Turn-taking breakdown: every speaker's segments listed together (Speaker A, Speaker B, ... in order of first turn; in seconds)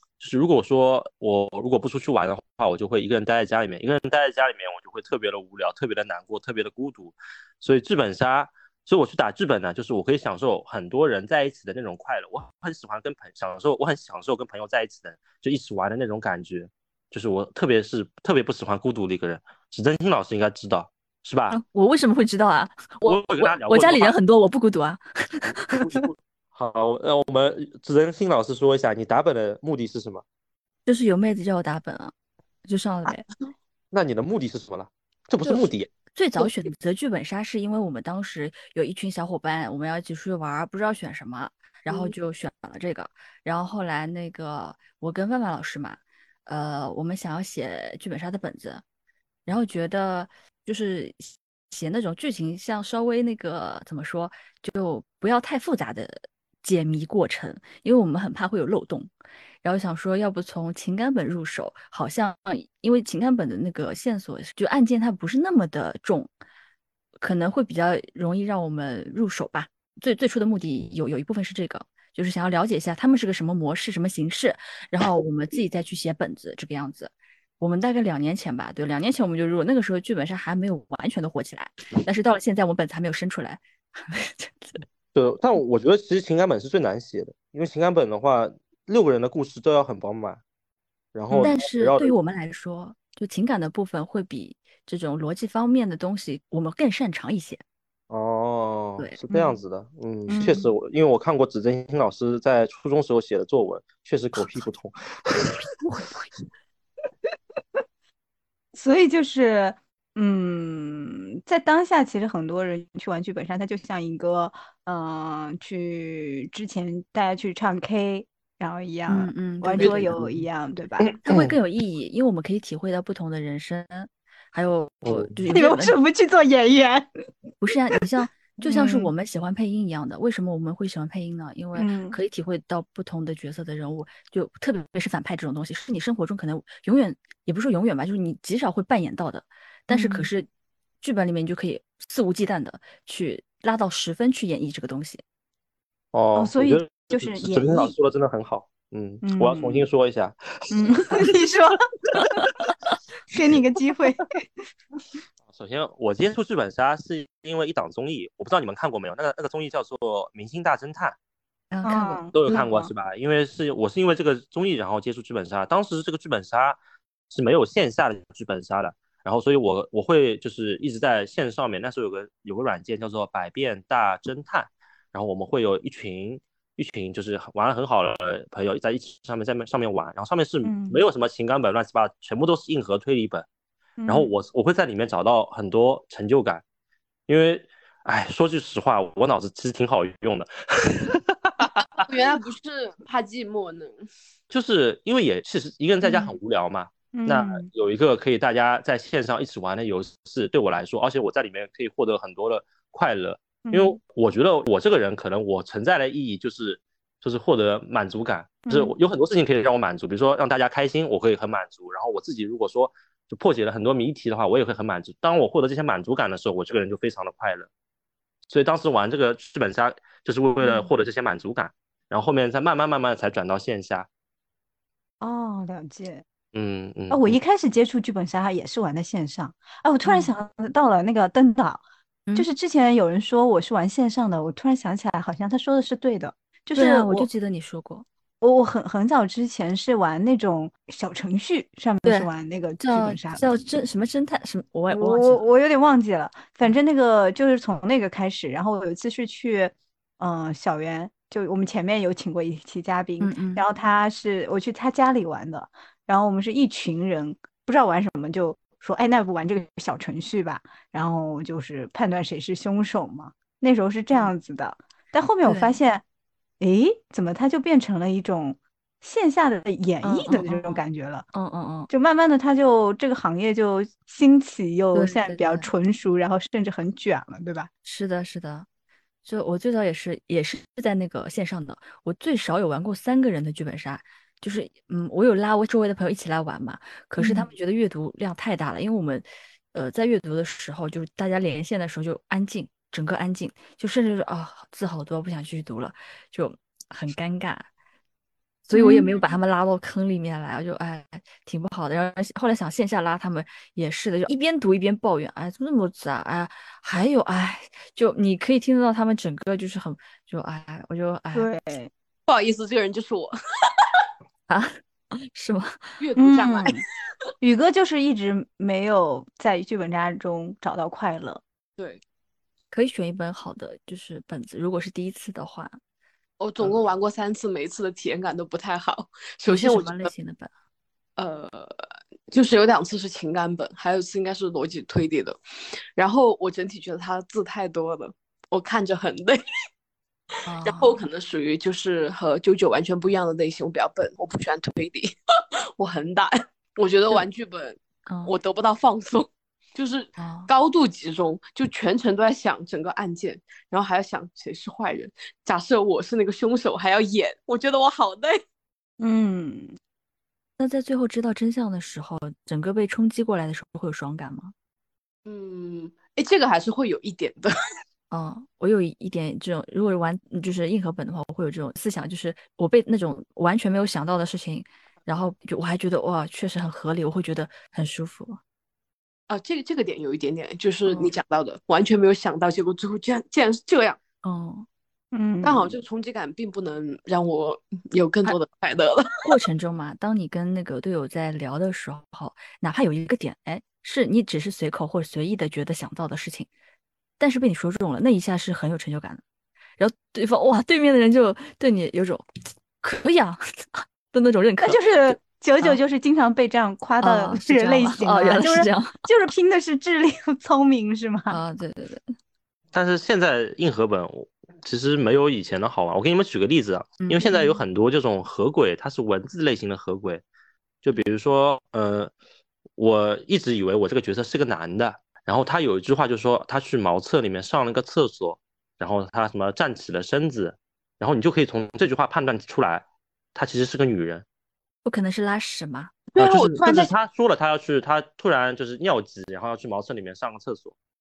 Speaker A: 0.2-21.6, 23.0-24.2, 25.4-30.2, 33.9-35.9, 85.1-90.4, 91.1-92.1, 98.1-105.7, 119.9-120.3, 121.0-121.5, 125.0-125.3, 146.1-151.3, 155.5-161.2, 162.3-166.8, 167.3-183.5, 184.1-186.6, 187.3-192.1, 194.5-217.7, 218.5-224.1, 226.5-227.4, 412.7-420.2, 420.8-422.1, 422.8-434.2, 436.2-440.8
Speaker B: 21.5-25.8, 30.9-32.1, 32.6-33.2, 35.5-48.8, 49.5-59.1, 59.6-66.3, 67.2-84.8, 91.3-97.6, 119.1-120.2, 121.2-126.0, 127.6-140.5, 141.0-145.2, 161.7-162.3, 230.1-230.3, 236.8-238.1, 242.0-245.4, 253.2-253.6, 265.5-265.8, 270.0-271.9, 274.9-275.7, 277.8-278.7, 279.2-297.7, 298.7-311.5, 314.5-314.8, 315.3-316.0, 322.7-325.8, 329.5-330.5, 340.5-341.0, 348.1-348.4, 350.2-350.5, 360.6-364.5, 368.1-378.4, 384.2-384.7, 389.2-396.5, 397.2-399.2, 399.8-402.3, 402.8-405.8, 407.0-408.9, 411.3-412.0, 417.0-417.6, 434.8-436.0
Speaker C: 99.3-99.6, 100.3-100.7, 108.7-121.2, 125.5-127.1, 128.6-129.1, 131.8-132.2, 139.9-140.3, 146.3-147.9, 149.2-149.9, 150.7-151.8, 153.3-154.3, 161.8-162.9, 180.6-181.0, 184.0-184.3, 196.0-196.3, 197.1-197.7, 203.7-204.0, 208.7-208.9, 220.6-220.9, 225.2-226.2, 227.1-231.8, 232.3-237.3, 238.4-243.4, 244.9-266.0, 266.6-271.3, 271.9-277.7, 287.2-287.5, 298.7-299.1, 311.3-311.9, 316.2-316.8, 317.4-321.4, 359.0-359.8, 385.1-385.8, 404.6-411.4
Speaker D: 191.6-193.9, 312.3-314.0, 316.0-316.8, 326.4-330.1, 331.2-335.4, 336.0-339.4, 340.6-345.1, 345.8-358.4, 365.3-367.5, 379.3-384.0, 385.4-389.2, 436.1-436.9